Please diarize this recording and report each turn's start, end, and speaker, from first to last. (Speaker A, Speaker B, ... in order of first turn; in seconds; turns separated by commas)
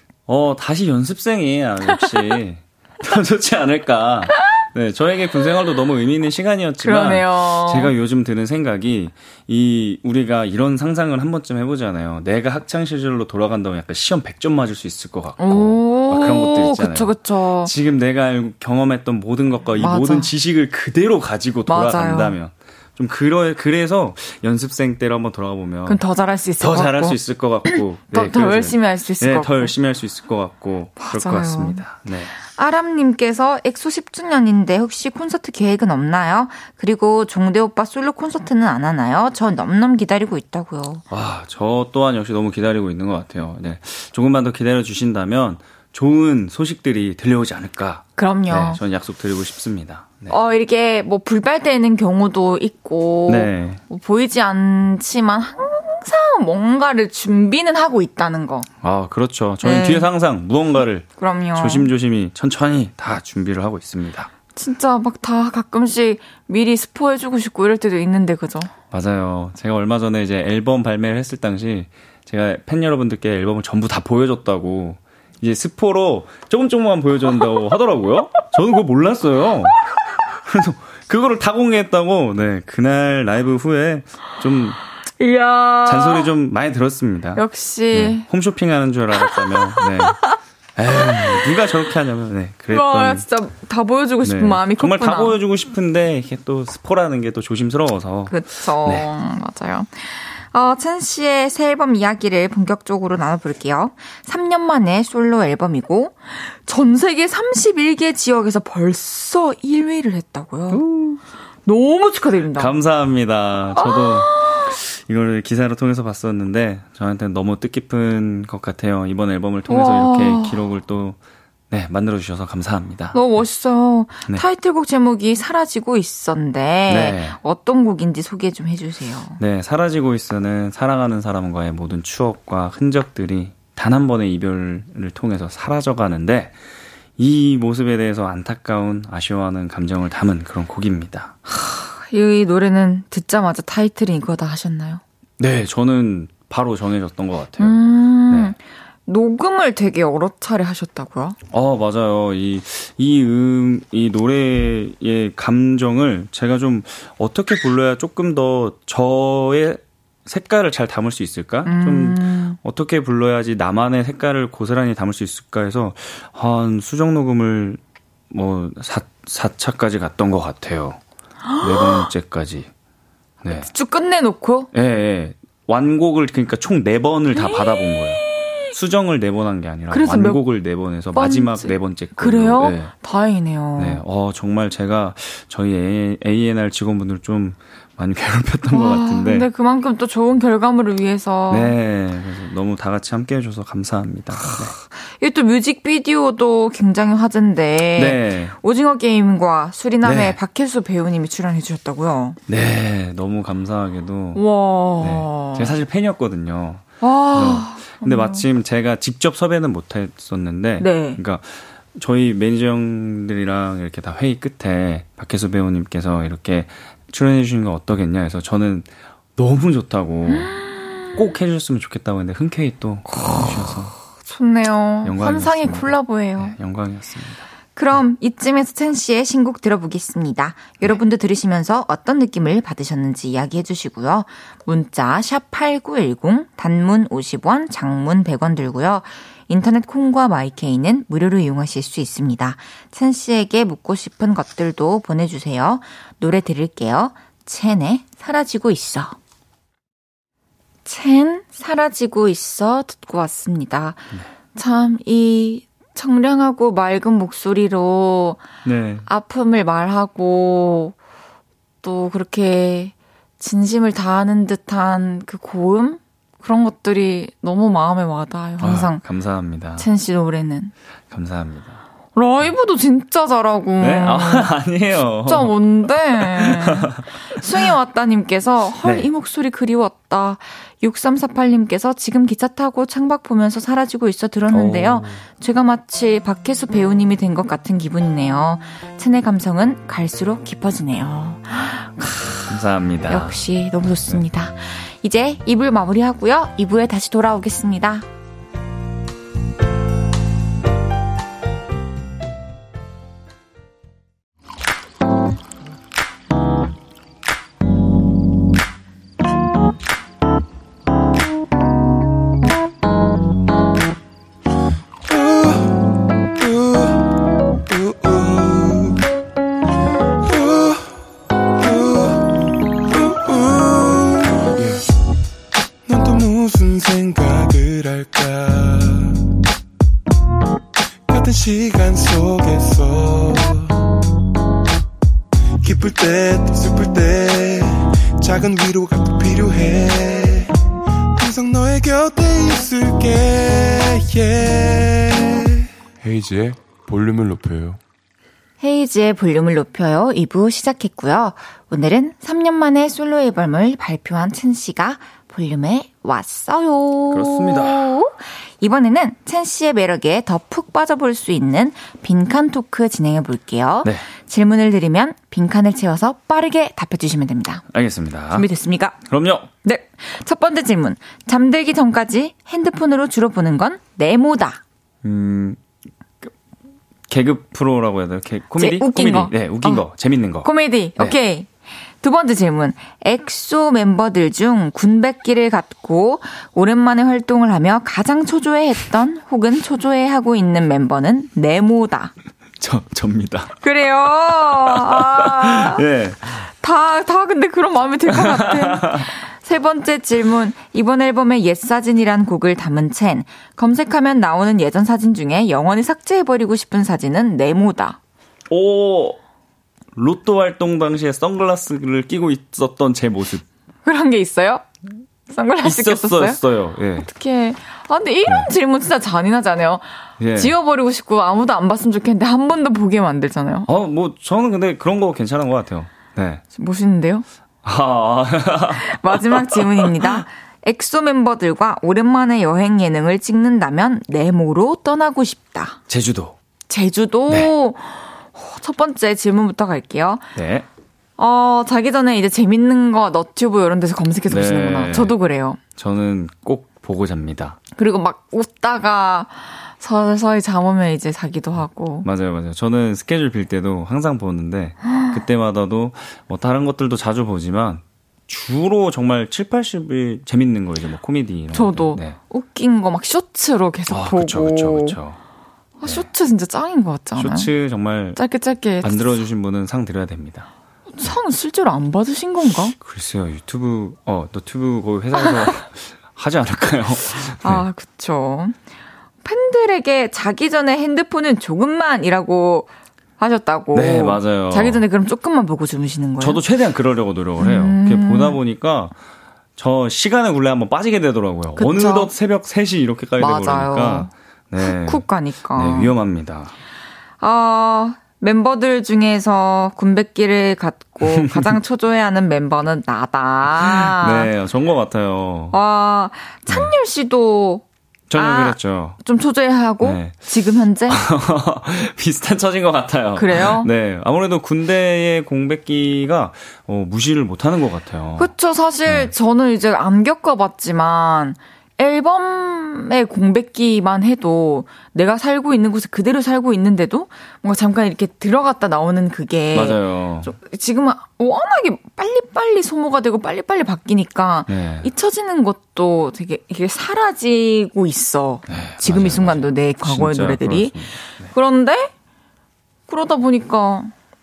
Speaker A: 0.3-26.0, Speaker B: 6.8-7.9, Speaker B: 15.4-17.7, Speaker B: 19.8-20.3, Speaker B: 21.7-22.4, Speaker B: 25.9-29.7, Speaker A: 26.6-32.3, Speaker B: 31.0-31.8, Speaker B: 32.4-41.0, Speaker A: 41.1-50.3, Speaker B: 48.2-48.8, Speaker B: 50.3-58.7, Speaker A: 53.3-53.8, Speaker A: 58.8-64.3, Speaker B: 59.6-60.1, Speaker B: 61.2-61.9, Speaker B: 64.5-68.7, Speaker A: 68.9-84.8, Speaker B: 85.2-86.3, Speaker A: 85.8-90.2, Speaker B: 87.3-88.2, Speaker B: 89.2-90.3, Speaker A: 90.8-93.2, Speaker B: 91.1-91.4, Speaker B: 92.7-95.4, Speaker A: 94.2-99.1, Speaker B: 98.3-110.8, Speaker A: 110.7-111.2, Speaker B: 111.7-112.7, Speaker A: 112.5-121.2, Speaker B: 113.8-114.7, Speaker B: 119.7-120.6, Speaker A: 121.7-123.2, Speaker B: 123.1-129.4, Speaker A: 126.9-127.4, Speaker A: 129.4-136.5, Speaker A: 137.2-141.3, Speaker B: 141.5-145.0, Speaker A: 145.4-148.5, Speaker B: 147.6-151.4, Speaker A: 151.5-171.0, Speaker B: 161.7-162.6, Speaker B: 171.5-172.1, Speaker A: 171.6-172.7, Speaker A: 173.4-173.7, Speaker B: 173.6-174.7, Speaker A: 174.7-182.9, Speaker B: 177.3-178.5, Speaker B: 179.9-180.4, Speaker B: 181.1-184.0, Speaker A: 183.8-189.5, Speaker B: 188.7-191.7, Speaker A: 191.5-194.8, Speaker B: 194.5-202.4, Speaker A: 197.9-198.6, Speaker A: 200.0-200.4, Speaker A: 202.5-204.4, Speaker B: 204.3-205.7, Speaker A: 205.0-220.5, Speaker B: 207.0-208.4, Speaker B: 210.8-211.2, Speaker B: 220.3-221.2, Speaker A: 221.1-223.9, Speaker B: 223.1-223.4, Speaker B: 224.2-226.5, Speaker A: 225.0-227.5, Speaker B: 227.8-249.1, Speaker B: 250.8-258.4, Speaker A: 258.6-259.1, Speaker B: 259.1-260.9, Speaker B: 261.8-269.0, Speaker A: 268.6-269.9, Speaker B: 269.8-270.7, Speaker A: 271.1-271.8, Speaker B: 272.1-274.5, Speaker A: 273.8-277.1, Speaker B: 275.2-292.6, Speaker A: 278.8-279.1, Speaker A: 284.5-285.2, Speaker A: 292.5-293.4, Speaker B: 293.1-298.1, Speaker C: 315.1-315.8, Speaker C: 316.4-317.1, Speaker C: 317.7-319.0, Speaker C: 320.2-321.0, Speaker C: 321.6-324.8, Speaker C: 325.9-329.2, Speaker C: 331.1-333.8, Speaker C: 335.6-340.5, Speaker C: 341.1-347.8, Speaker B: 348.6-367.6, Speaker A: 357.1-357.9, Speaker A: 367.7-368.5, Speaker B: 368.3-369.0, Speaker A: 369.0-369.5, Speaker B: 369.6-374.6, Speaker A: 375.0-375.6, Speaker A: 377.1-381.1, Speaker B: 378.6-379.9, Speaker B: 380.4-381.5, Speaker B: 382.0-392.1, Speaker A: 392.6-393.5, Speaker B: 393.6-395.8, Speaker A: 394.7-396.4, Speaker B: 396.5-408.0, Speaker A: 398.1-399.1, Speaker A: 408.5-409.2, Speaker A: 409.9-413.4, Speaker B: 413.8-414.6, Speaker B: 415.3-416.4, Speaker A: 415.6-417.1, Speaker B: 417.0-419.8, Speaker A: 420.2-420.5, Speaker B: 420.3-423.7, Speaker A: 423.7-426.4, Speaker B: 426.5-427.2, Speaker A: 427.6-430.2, Speaker B: 428.8-435.8, Speaker A: 435.9-436.4, Speaker B: 436.7-440.2, Speaker A: 440.3-440.7, Speaker B: 441.2-445.6, Speaker A: 444.3-445.1, Speaker A: 445.8-447.6, Speaker B: 447.8-452.1, Speaker A: 452.0-462.2, Speaker B: 461.5-465.0, Speaker A: 463.9-465.2, Speaker B: 465.8-467.5, Speaker A: 467.2-468.2, Speaker B: 468.1-469.1, Speaker A: 468.8-470.5, Speaker B: 470.9-472.7, Speaker A: 472.8-477.6, Speaker B: 477.4-478.5, Speaker B: 479.2-486.4, Speaker A: 483.7-484.8, Speaker A: 486.2-488.9, Speaker B: 487.4-488.4, Speaker A: 489.6-496.5, Speaker B: 491.6-492.1, Speaker B: 493.2-495.9, Speaker B: 497.2-504.3, Speaker A: 501.0-501.5, Speaker A: 503.6-505.6, Speaker B: 505.5-507.6, Speaker A: 506.5-506.7, Speaker A: 508.1-509.0, Speaker B: 508.1-511.0, Speaker A: 509.8-510.2, Speaker A: 510.9-518.3, Speaker B: 513.2-513.7, Speaker B: 518.2-541.9, Speaker A: 518.9-519.1, Speaker A: 529.5-530.3, Speaker A: 534.5-534.9, Speaker A: 538.5-541.3, Speaker B: 542.9-543.9